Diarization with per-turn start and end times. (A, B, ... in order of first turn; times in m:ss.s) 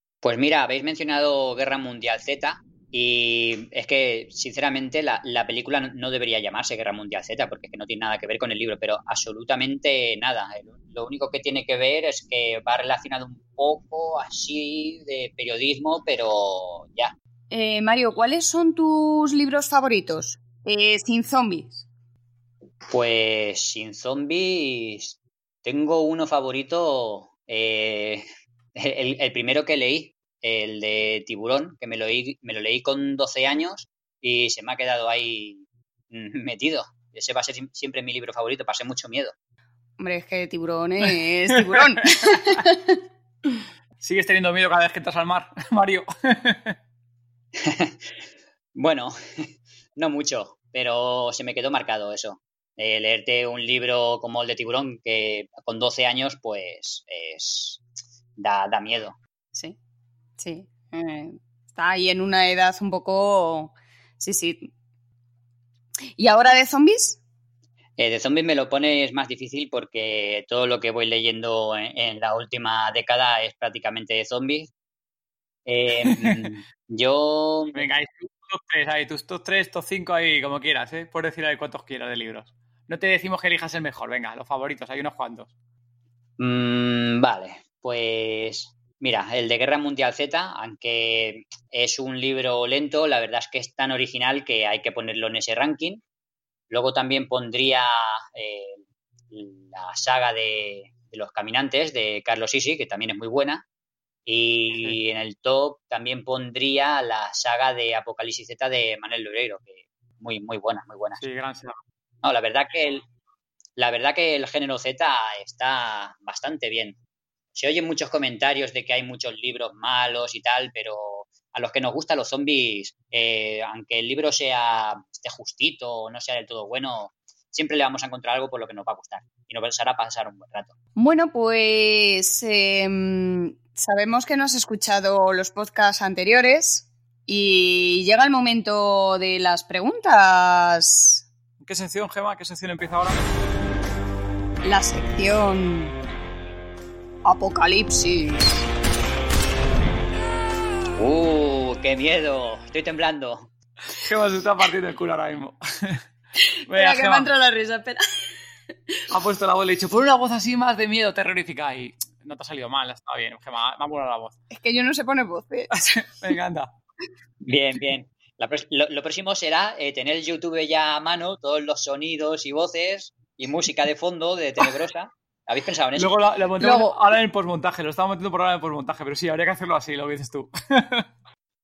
0:00.2-0:17.1 A
0:17.5-0:21.8 B
0:22.9-0:39.3 A
0:40.0-0:43.0 B
0:44.0-0:46.8 C
0:47.6-0:48.1 A
0:48.7-0:57.8 A
0:58.4-0:59.2 A
1:00.4-1:04.7 B
1:06.2-1:07.2 B
1:08.0-1:14.7 A
1:15.6-1:17.8 A
1:16.0-1:16.5 C
1:17.7-1:25.5 C
1:26.4-1:36.0 A
1:36.7-1:43.6 A
1:44.2-1:51.2 A
1:51.2-1:51.8 C
1:52.2-1:53.1 A
1:53.8-1:57.0 A
1:57.5-2:10.7 A
2:11.0-2:21.2 B
2:21.6-2:23.3 C
2:24.6-2:25.9 B
2:27.2-2:28.6 B
2:31.0-2:33.5 A
2:34.0-2:36.0 C
2:36.6-2:38.0 B
2:36.7-2:37.3 C
2:39.1-2:44.4 C
2:44.5-2:46.0 B
2:45.8-2:46.7 C
2:47.4-2:56.1 A
2:56.0-3:01.1 C
2:56.6-2:56.9 B